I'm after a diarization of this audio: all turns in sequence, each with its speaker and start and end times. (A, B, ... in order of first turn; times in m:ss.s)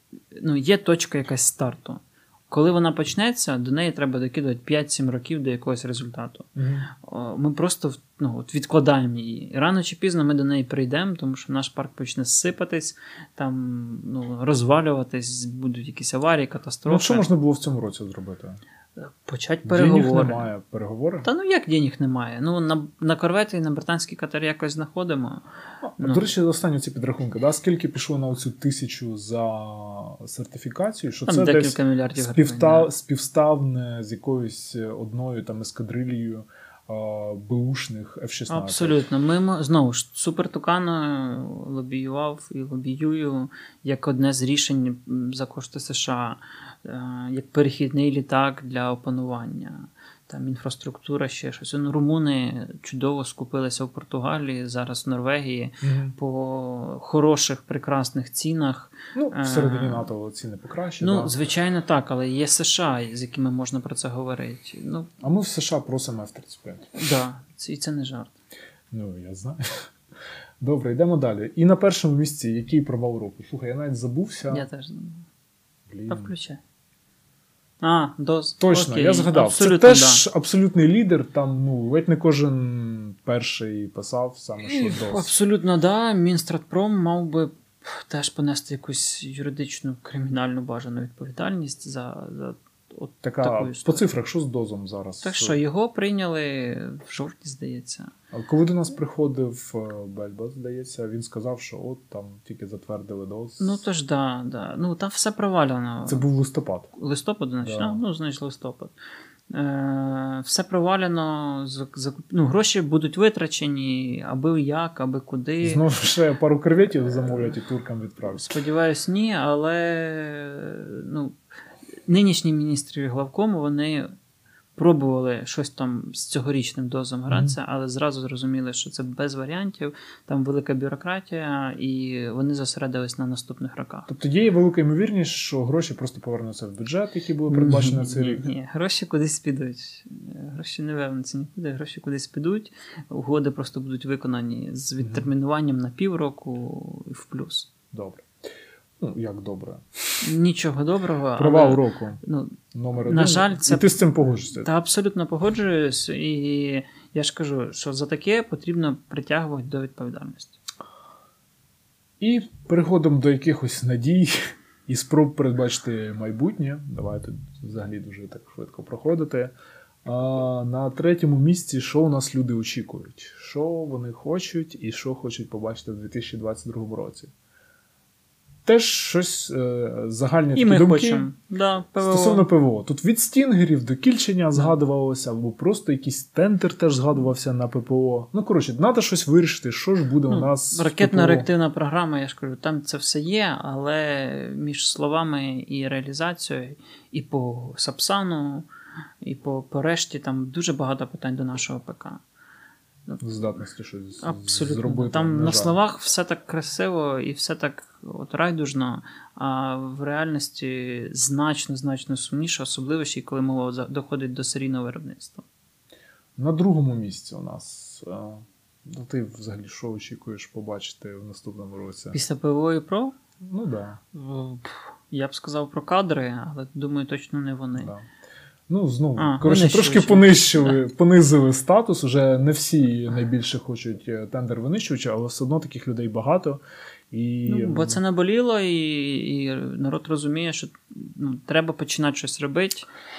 0:00.3-0:17.3 A
0:06.6-0:06.9 B
0:16.8-0:18.6 B
0:19.0-0:20.5 A
0:19.6-0:21.3 B
0:21.2-0:25.4 A
0:25.8-0:39.0 B
0:26.0-0:26.3 A
0:31.3-0:32.9 A
0:38.5-1:00.1 A
0:55.8-0:56.1 B
0:59.1-1:01.4 B
1:01.0-1:05.1 A
1:05.2-1:06.9 B
1:07.0-1:08.3 A
1:08.9-1:09.9 B
1:10.6-1:14.7 B
1:14.5-1:15.3 A
1:15.9-1:16.3 B
1:16.1-1:16.6 A
1:17.8-1:20.2 A
1:18.6-1:25.3 B
1:24.6-1:34.0 A
1:33.2-1:35.6 B
1:35.2-1:38.1 A
1:38.3-1:43.8 B
1:43.6-1:46.2 A
1:46.1-1:46.9 B
1:46.9-1:48.9 A
1:47.6-1:48.0 B
1:49.5-1:55.8 A
1:55.6-1:58.5 B
1:58.3-2:01.4 A
2:02.1-2:04.1 A
2:04.8-2:14.1 A
2:07.3-2:07.6 B
2:14.1-2:18.5 B
2:17.5-2:27.7 A
2:25.0-2:25.3 B
2:27.9-2:28.3 B
2:29.0-2:30.3 B
2:30.2-2:34.0 A
2:31.4-2:32.2 B
2:32.7-2:34.7 B
2:34.5-2:40.6 A
2:42.2-2:49.5 B
2:50.0-2:57.3 B
2:58.6-3:01.3 B
3:00.5-3:02.5 A
3:02.0-3:11.5 B
3:10.3-3:18.7 A
3:19.2-3:22.2 A
3:23.2-3:25.8 B
3:24.2-3:35.4 A
3:36.4-3:42.2 B
3:42.1-3:43.1 A
3:43.4-3:44.0 B
3:44.1-3:47.9 A
3:47.8-3:48.1 B
3:48.7-3:58.0 B
3:49.2-3:50.8 A
3:57.4-4:02.8 A